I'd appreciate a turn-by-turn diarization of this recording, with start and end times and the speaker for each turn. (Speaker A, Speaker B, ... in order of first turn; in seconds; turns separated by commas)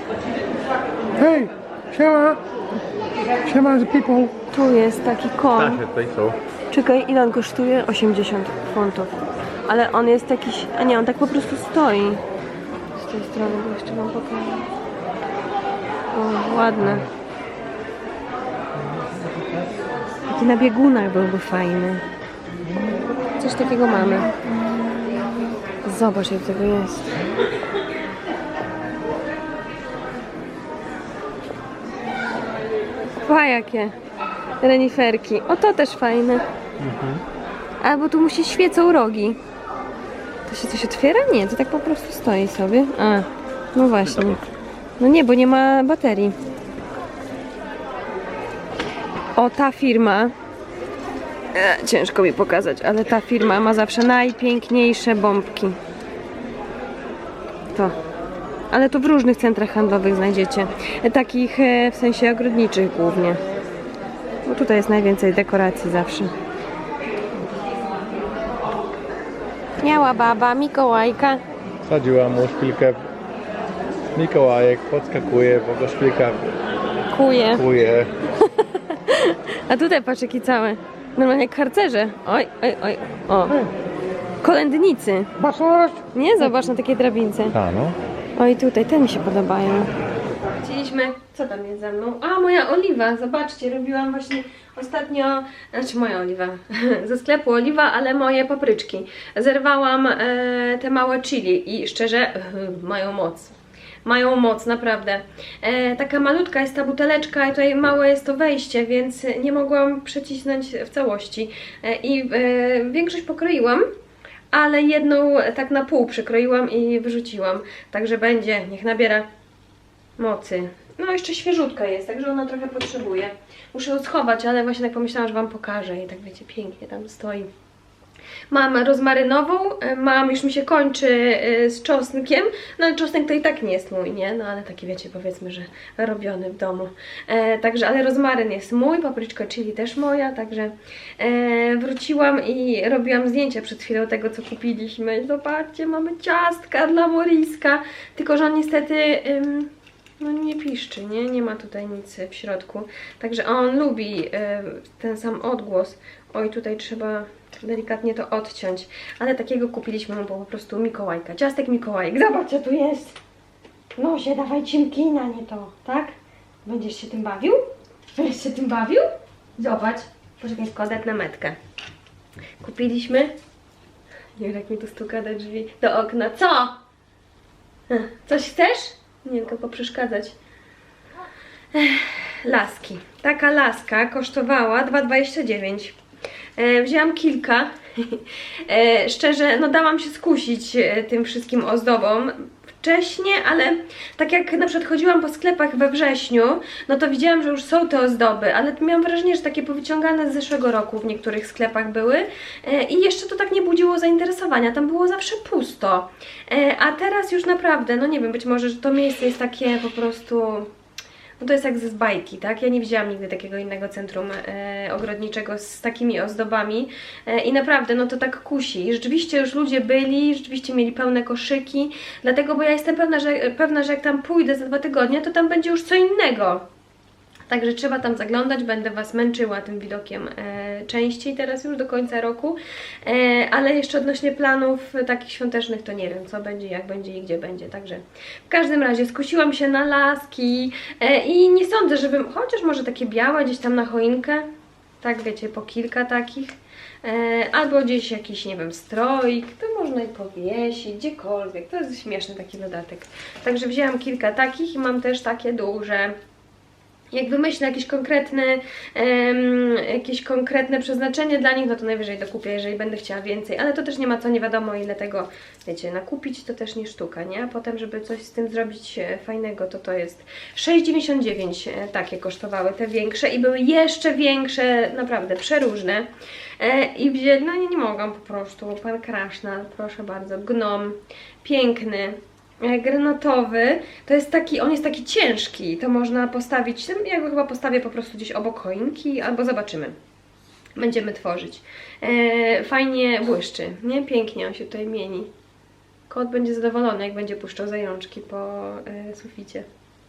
Speaker A: 1.2-2.4, Speaker A: 3.4-4.3, Speaker B: 4.5-5.8, Speaker C: 5.5-6.4, Speaker B: 6.7-12.2, Speaker B: 12.9-14.7, Speaker B: 16.1-17.1, Speaker B: 20.3-22.0, Speaker B: 23.4-24.3, Speaker B: 25.1-27.2, Speaker B: 33.2-33.9, Speaker B: 34.6-36.4, Speaker C: 36.8-37.2, Speaker B: 37.8-39.4, Speaker B: 40.5-44.4, Speaker C: 44.0-44.4, Speaker B: 45.0-46.4, Speaker B: 49.4-50.3, Speaker B: 51.5-55.8, Speaker B: 57.7-58.0, Speaker B: 58.7-63.4, Speaker B: 64.5-66.3, Speaker B: 69.8-71.4, Speaker C: 71.8-73.0, Speaker C: 74.1-76.5, Speaker B: 77.1-77.6, Speaker C: 77.5-78.1, Speaker B: 78.4-83.7, Speaker B: 84.4-85.3, Speaker A: 85.5-85.9, Speaker B: 86.1-87.5, Speaker C: 87.5-88.0, Speaker B: 88.4-89.9, Speaker B: 90.5-113.9, Speaker B: 114.5-119.3, Speaker B: 120.2-127.5, Speaker B: 128.5-163.2, Speaker B: 164.0-166.1, Speaker B: 166.6-167.6, Speaker B: 168.1-169.1, Speaker B: 169.6-171.6, Speaker B: 172.6-173.3, Speaker B: 174.4-176.8, Speaker B: 177.9-180.3, Speaker B: 181.7-185.9, Speaker B: 186.6-210.7, Speaker B: 211.4-226.7, Speaker B: 227.5-244.5, Speaker B: 245.0-256.2, Speaker B: 257.1-276.1, Speaker B: 276.6-289.9, Speaker B: 290.8-295.3, Speaker B: 296.1-299.7